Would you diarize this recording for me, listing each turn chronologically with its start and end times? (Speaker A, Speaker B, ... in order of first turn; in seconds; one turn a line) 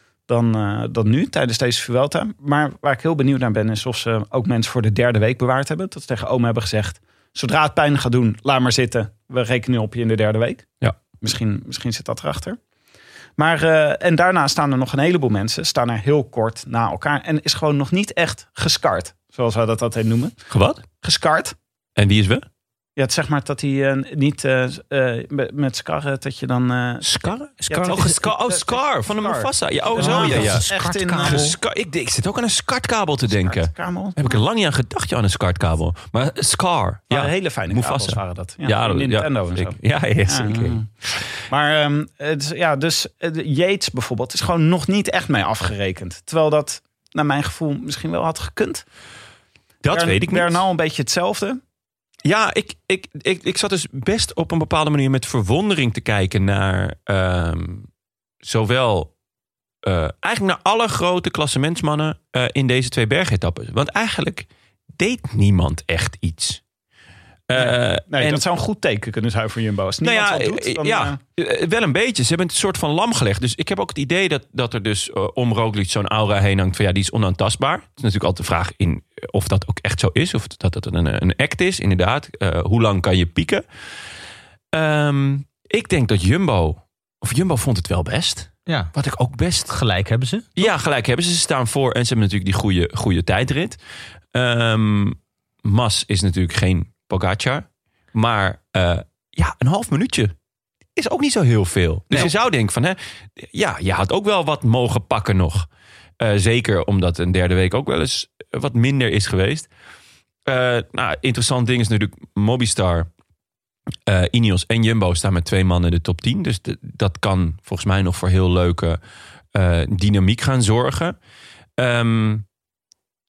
Speaker A: 0.3-12.6
Speaker A: 13.4-20.5
Speaker B: 20.5-20.8
Speaker A: 21.0-21.5
Speaker B: 21.9-22.4
Speaker A: 23.0-31.5
Speaker B: 27.0-30.6
Speaker C: 27.6-28.1
Speaker C: 29.9-31.6
Speaker B: 31.2-41.2
Speaker A: 33.3-34.4
Speaker A: 37.1-40.9
Speaker A: 41.5-48.8
Speaker B: 49.8-50.6
Speaker A: 49.9-51.6
Speaker B: 52.2-57.9
Speaker B: 58.4-59.1
Speaker B: 59.8-66.6
Speaker B: 67.5-68.4
Speaker A: 67.5-71.2
Speaker B: 70.0-83.7
Speaker B: 84.7-89.7
Speaker C: 88.7-88.9
Speaker C: 89.7-90.5
Speaker B: 90.5-93.8
Speaker B: 94.3-100.3
Speaker B: 101.0-105.7
Speaker B: 106.2-109.7
Speaker B: 110.5-113.1
Speaker B: 114.1-119.0
Speaker B: 119.5-121.2
Speaker B: 121.8-122.4